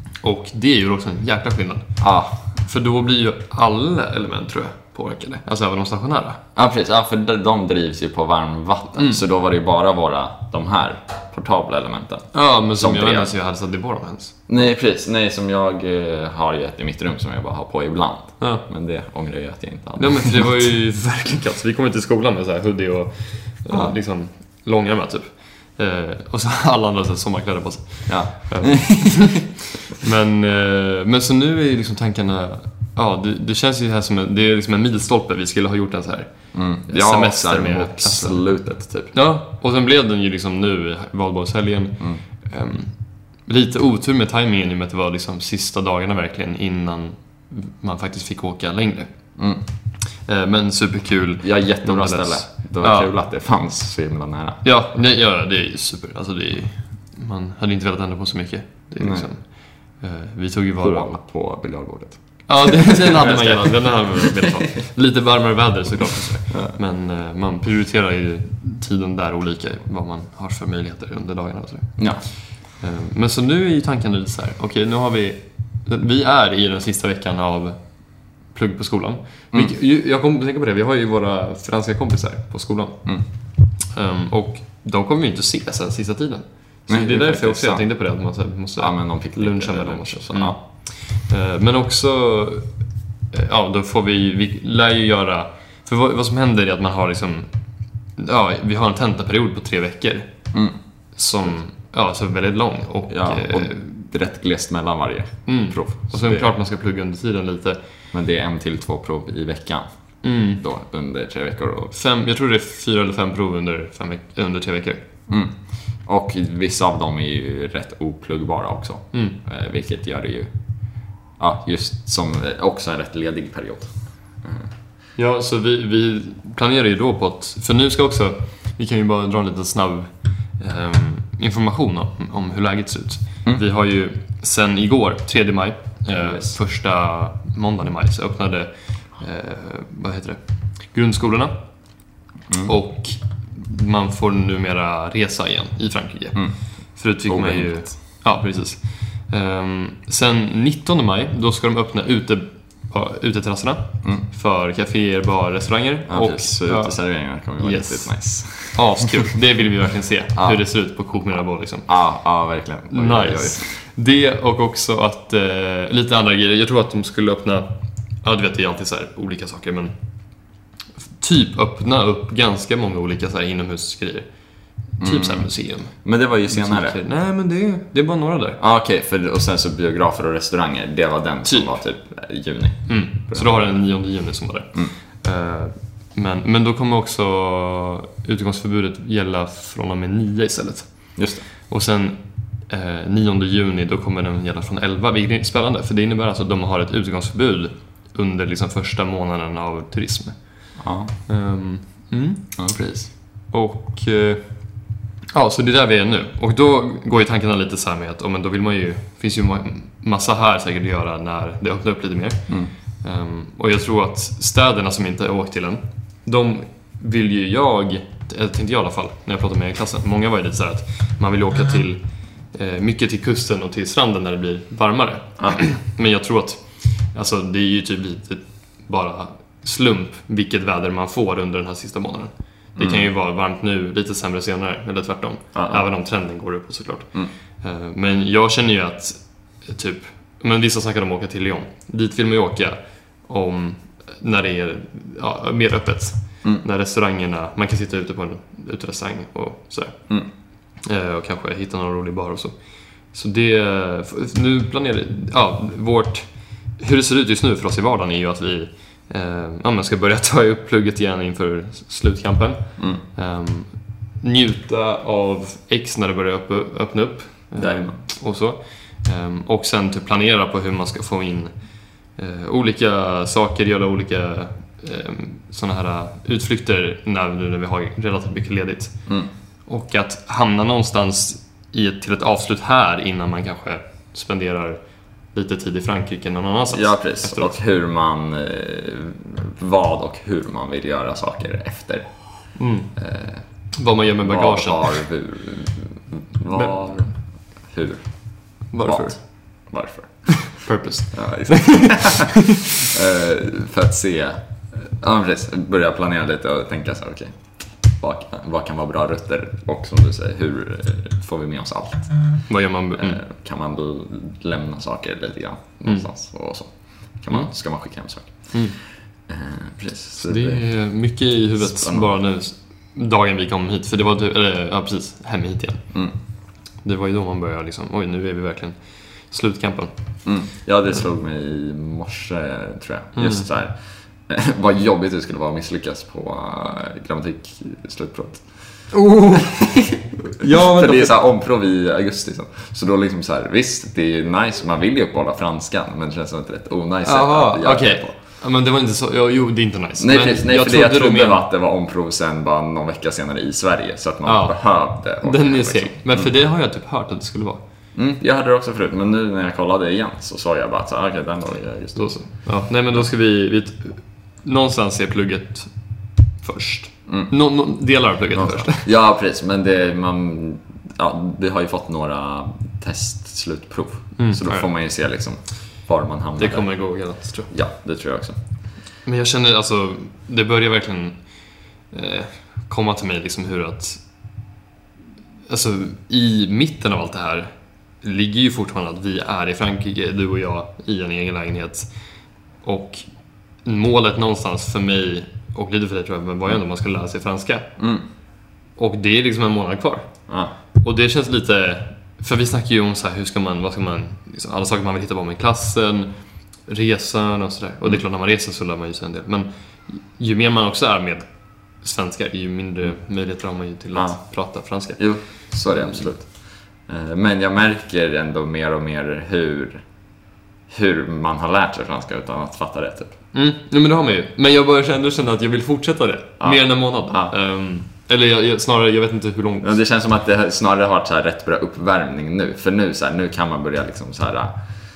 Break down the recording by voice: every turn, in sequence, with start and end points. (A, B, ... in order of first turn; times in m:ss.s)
0:00.2-0:01.9 A
0:02.0-0:02.4 B
0:02.6-0:06.4 A
0:06.5-0:13.3 B
0:09.0-0:09.2 A
0:12.3-0:14.4 A
0:14.5-0:20.8 B
0:18.4-0:18.6 A
0:20.0-0:38.4 A
0:23.7-0:24.0 B
0:28.1-0:29.4 B
0:36.5-0:39.1 B
0:39.1-0:49.1 A
0:49.4-0:49.6 B
0:50.2-0:53.1 A
0:51.4-0:54.6 B
0:54.6-1:01.1 A
0:59.0-0:59.3 B
1:00.8-1:04.5 B
1:02.5-1:17.8 A
1:12.0-1:12.2 B
1:18.5-1:23.0 A
1:23.9-1:32.7 A
1:26.9-1:27.9 B
1:28.8-1:30.6 B
1:33.3-1:37.5 A
1:38.2-1:40.3 A
1:41.2-1:44.0 A
1:43.1-1:46.5 B
1:45.5-1:47.8 A
1:48.1-1:49.8 B
1:50.2-1:50.6 A
1:50.6-1:51.9 B
1:51.9-1:55.0 A
1:55.3-2:00.5 B
2:01.4-2:04.7 B
2:05.2-2:21.5 A
2:16.2-2:16.5 B
2:22.6-2:37.0 A
2:27.3-2:27.8 B
2:36.1-2:39.3 B
2:37.6-2:41.9 A
2:41.9-2:43.8 B
2:42.9-2:47.7 A
2:48.2-2:49.9 A
2:51.2-2:54.3 A
2:54.9-2:55.9 A
2:55.0-2:57.0 B
2:56.5-2:58.6 A
2:58.6-3:03.8 B
3:01.4-3:01.7 A
3:02.9-3:11.1 A
3:11.2-3:11.4 B
3:11.7-3:20.7 A
3:20.8-3:21.1 B
3:21.3-3:22.5 A
3:22.6-3:23.1 B
3:23.5-3:24.4 A
3:25.3-4:10.0 A
3:52.8-3:53.1 B
3:55.5-3:55.8 B
4:10.8-4:12.5 A
4:13.1-4:31.5 A
4:27.6-4:28.0 B
4:32.1-4:39.0 A
4:39.7-4:44.8 A
4:45.3-4:47.6 A
4:46.7-4:52.2 B
4:52.5-4:52.9 A
4:53.0-4:53.4 B
4:53.7-4:55.0 A
4:54.2-4:57.2 B
4:57.7-4:58.1 B
4:58.7-4:59.2 A
4:58.8-5:00.5 B
5:00.3-5:02.9 A
5:01.1-5:07.4 B
5:08.0-5:12.2 B
5:12.5-5:13.2 A
5:13.0-5:18.5 B
5:19.3-5:20.6 B
5:20.2-5:25.8 A
5:21.6-5:22.2 B
5:26.8-5:29.9 A
5:30.2-5:33.7 B
5:33.2-5:33.4 A
5:34.3-5:38.4 B
5:38.9-5:39.6 A
5:39.3-5:48.1 B
5:40.3-5:41.2 A
5:47.0-5:51.4 A
5:50.0-5:56.3 B
5:54.2-5:54.6 A
5:55.2-5:57.6 A
5:57.9-6:02.1 B
6:02.0-6:05.7 A
6:06.4-6:08.9 A
6:08.3-6:16.7 B
6:14.2-6:14.7 A
6:16.4-6:17.5 A
6:17.5-6:18.4 B
6:19.0-6:21.2 A
6:21.9-6:24.0 A
6:25.5-6:31.9 A
6:32.6-6:33.0 A
6:33.6-6:37.7 A
6:37.8-6:38.0 B
6:38.8-6:40.1 A
6:40.3-6:40.5 B
6:40.8-6:46.1 A
6:46.7-6:51.2 A
6:51.8-6:55.0 A
6:55.0-6:56.3 B
6:56.9-6:59.8 B
7:00.7-7:03.1 B
7:03.3-7:09.8 A
7:06.4-7:07.3 B
7:09.6-7:14.5 B